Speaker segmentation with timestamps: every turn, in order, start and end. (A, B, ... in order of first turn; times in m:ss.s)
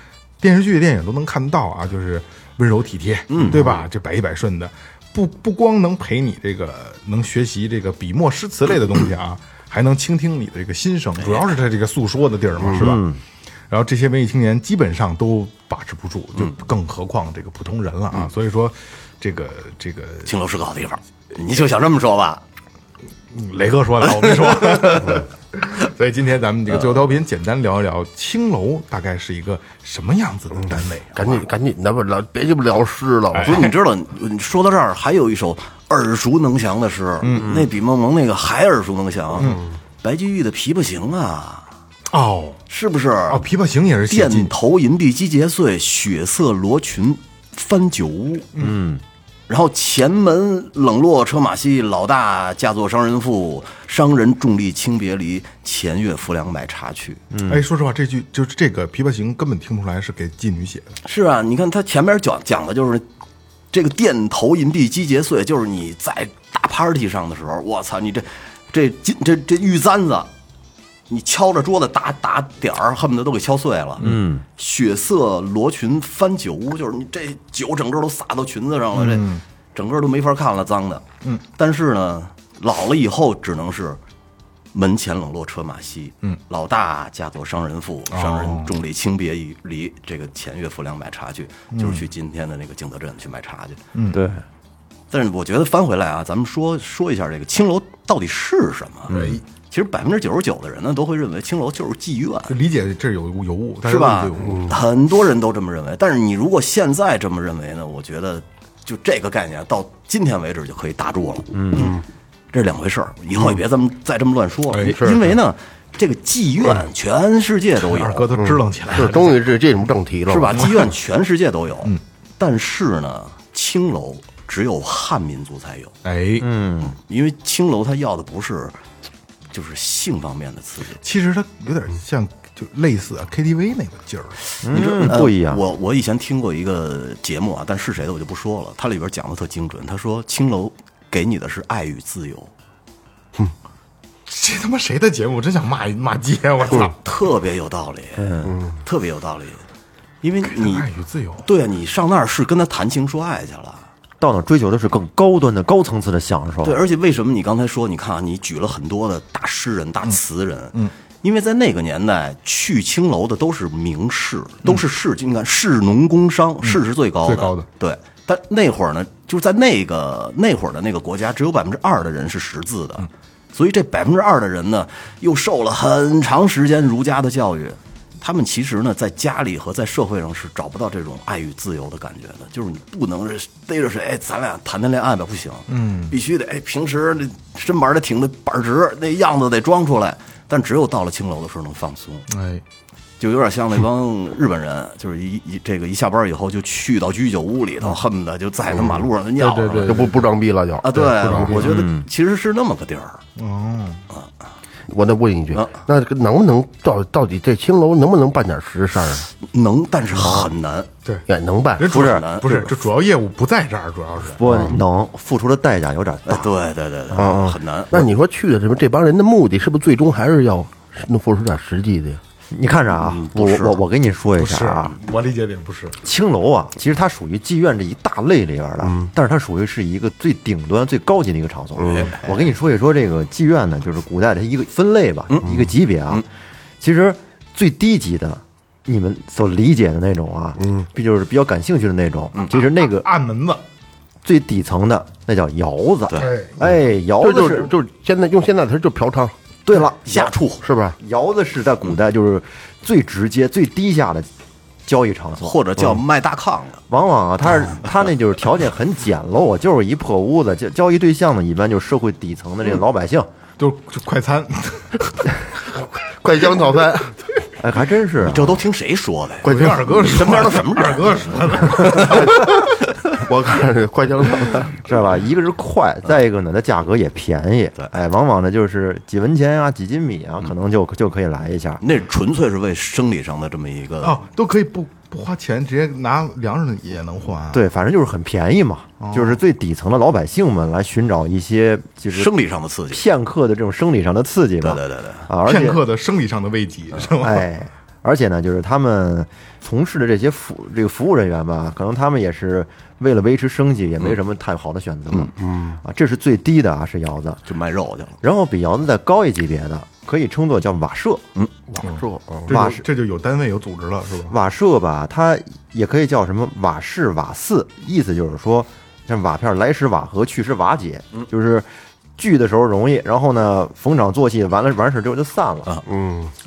0:00.4-0:13.1 A
0:03.3-0:03.6 B
0:03.5-0:03.8 C
0:11.2-0:11.5 B
0:12.6-0:12.9 C
0:12.8-0:13.2 D
0:13.7-0:20.3 A
0:20.2-0:22.4 B
0:23.3-0:31.4 A
0:30.7-0:33.7 C
0:33.3-0:33.7 A
0:33.4-0:41.7 B
0:37.2-0:37.6 A
0:39.4-0:39.6 A
0:42.1-0:42.6 A
0:42.7-0:43.4 B
0:43.3-0:44.5 A
0:44.1-0:48.5 B
0:48.6-0:49.0 D
0:49.5-0:57.2 B
0:57.3-0:57.6 D
0:57.5-1:01.0 A
1:01.0-1:03.0 B
1:03.7-1:10.3 B
1:11.1-1:14.0 B
1:14.0-1:14.4 D
1:14.6-1:24.0 B
1:18.9-1:19.4 A
1:24.7-1:33.8 B
1:28.1-1:28.7 A
1:31.7-1:32.0 A
1:33.9-1:34.2 A
1:34.1-1:34.4 D
1:35.1-1:39.2 B
1:39.1-1:39.4 D
1:39.1-1:39.4 A
1:39.7-1:42.6 B
1:42.5-1:44.7 A
1:43.8-1:51.9 B
1:44.4-1:44.7 C
1:51.5-1:51.9 D
1:51.8-1:52.0 C
1:52.5-1:58.3 B
1:54.7-1:55.0 A
1:54.8-1:55.2 C
1:57.8-1:59.4 A
1:58.3-2:00.9 C
2:00.3-2:05.9 B
2:06.0-2:06.5 A
2:06.4-2:06.9 D
2:06.8-2:08.8 B
2:09.5-2:11.0 B
2:11.0-2:14.4 A
2:14.6-2:15.6 D
2:14.7-2:22.5 B
2:24.3-2:27.0 A
2:27.0-2:29.6 B
2:28.2-2:28.5 D
2:30.2-2:30.9 B
2:30.4-2:31.5 A
2:31.4-2:33.9 B
2:34.2-2:36.8 D
2:36.6-3:12.2 B
2:46.7-2:47.7 A
3:05.7-3:06.2 A
3:12.3-3:12.6 A
3:13.2-3:20.0 B
3:19.4-3:20.2 A
3:19.8-3:21.7 C
3:20.8-3:23.2 B
3:20.9-3:21.7 A
3:21.6-3:22.0 D
3:23.4-3:24.0 A
3:24.9-3:29.3 C
3:25.5-3:25.8 B
3:29.4-3:30.9 B
3:30.2-3:30.5 D
3:31.3-3:31.9 C
3:31.8-3:34.4 A
3:31.9-3:32.7 B
3:31.9-3:32.7 D
3:34.3-3:36.5 D
3:34.4-3:34.8 C
3:36.2-3:38.1 B
3:37.2-3:42.2 C
3:42.5-3:45.0 D
3:43.3-3:43.8 B
3:44.4-3:46.0 A
3:46.0-3:56.2 D
3:48.8-3:49.1 C
3:51.9-3:52.4 B
3:56.8-4:03.1 D
4:00.6-4:00.8 C
4:02.5-4:03.6 A
4:04.2-4:07.7 D
4:06.2-4:06.5 A
4:07.2-4:09.4 C
4:09.6-4:10.3 D
4:10.0-4:10.6 B
4:10.6-4:11.0 C
4:11.0-4:14.3 D
4:14.8-4:16.0 D
4:15.4-4:16.8 B
4:16.9-4:23.3 D
4:23.6-4:25.4 A
4:25.7-4:27.2 C
4:27.6-4:28.6 D
4:28.2-4:31.2 B
4:29.4-4:30.5 C
4:29.4-4:32.4 A
4:31.8-4:32.2 B
4:31.8-4:34.8 C
4:34.8-4:41.8 D
4:41.8-4:44.2 B
4:44.0-4:47.6 A
4:47.5-4:52.3 D
4:49.0-4:49.4 A
4:52.1-4:53.0 B
4:52.9-4:55.8 D
4:54.6-4:55.3 B
4:55.4-4:57.5 A
4:57.0-5:07.4 D
5:05.4-5:05.8 C
5:07.5-5:08.2 B
5:08.2-5:11.2 D
5:11.7-5:12.6 C
5:11.8-5:14.4 A
5:12.5-5:12.8 D
5:14.3-5:25.8 D
5:25.8-5:26.3 C